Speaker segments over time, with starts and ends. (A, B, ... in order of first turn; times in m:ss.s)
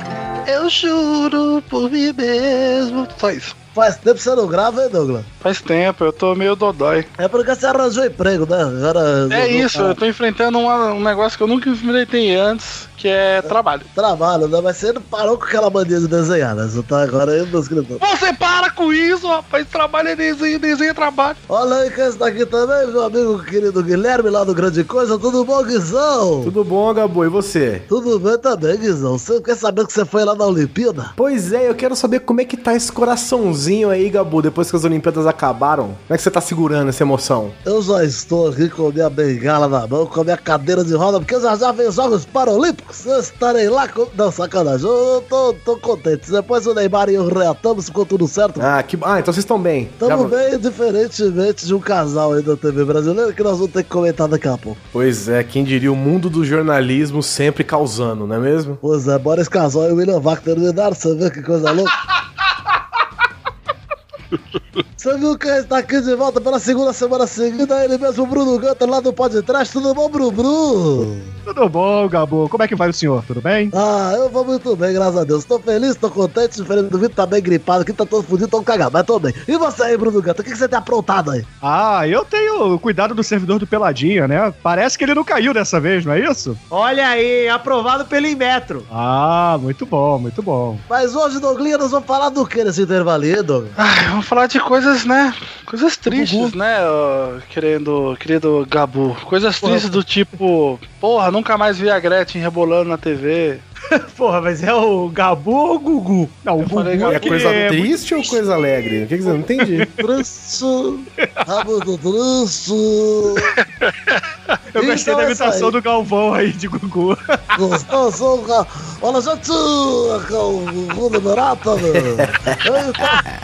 0:00.5-0:03.6 A
0:03.8-0:05.3 B
0:05.4-0:07.1 A
0:07.2-0:10.0 B
0:09.3-0:13.9 A
0:13.5-0:18.0 B
0:18.0-0:21.4 A
0:21.5-0:26.5 B
0:26.4-0:27.9 C
0:27.9-0:31.1 B
0:31.2-0:37.6 C
0:37.6-0:48.7 B
0:48.6-0:50.4 C
0:50.0-0:54.8 B
0:54.9-0:58.8 C
0:58.8-1:02.0 B
1:05.0-1:11.3 B
1:11.5-1:13.7 D
1:13.7-1:21.5 B
1:21.6-1:26.6 D
1:26.7-1:28.9 E
1:28.9-1:30.8 D
1:30.9-1:33.8 B
1:33.8-1:43.6 A
1:36.1-1:36.4 E
1:36.1-1:36.5 D
1:39.6-1:40.0 D
1:43.9-1:46.4 E
1:46.4-1:47.9 D
1:46.6-1:47.7 A
1:47.0-1:49.9 C
1:50.0-1:53.5 B
1:53.5-1:54.2 A
1:54.7-1:57.6 D
1:54.8-1:55.8 B
1:57.6-2:03.2 B
2:01.9-2:03.2 C